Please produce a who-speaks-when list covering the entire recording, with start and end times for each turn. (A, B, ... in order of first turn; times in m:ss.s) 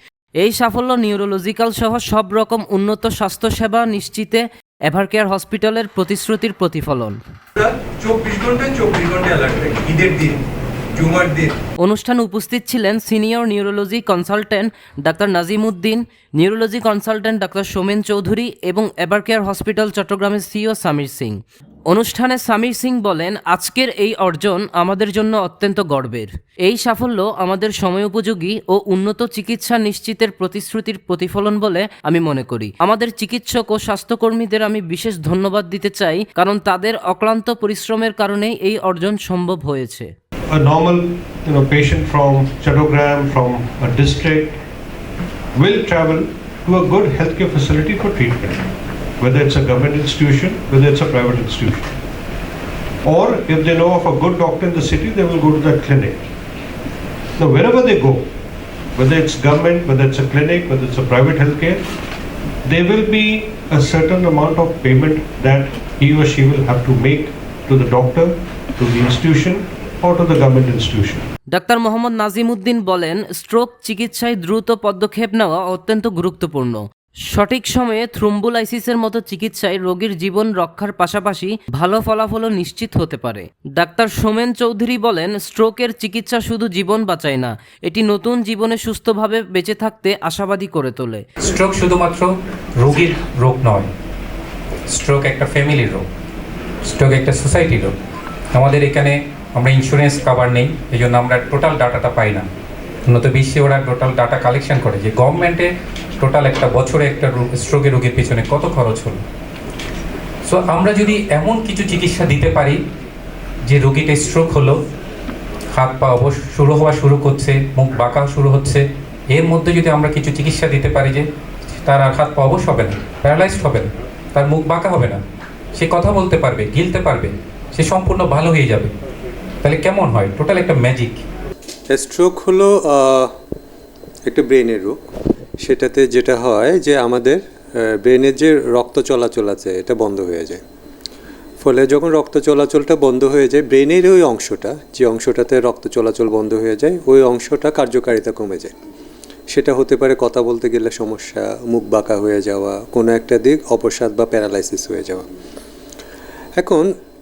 0:00.4-0:07.2 A
0:07.6-0:10.4 B
0:10.9-0:11.5 B
0:11.8-0:40.1 A
0:40.5-0:44.6 C
0:45.5-0:48.6 C
0:49.2-0:51.9 C
0:53.0-0:56.2 C
0:57.4-0:58.2 C
0:59.0-1:01.8 C
1:02.6-1:11.3 C
1:11.5-1:31.2 A
1:31.4-1:33.9 D
1:34.9-1:36.0 D
1:36.8-1:37.9 D
1:38.5-1:42.4 D
1:43.1-1:45.7 D
1:46.2-1:49.2 D
1:50.4-1:52.8 D
1:53.7-1:54.8 D
1:55.7-2:01.2 D
2:01.8-2:05.2 D
2:05.8-2:08.9 D
2:09.6-2:11.2 D
2:11.9-2:13.3 E
2:14.2-2:15.0 E
2:15.6-2:20.6 E
2:21.6-2:28.7 E
2:29.5-2:35.3 E
2:36.6-2:36.9 E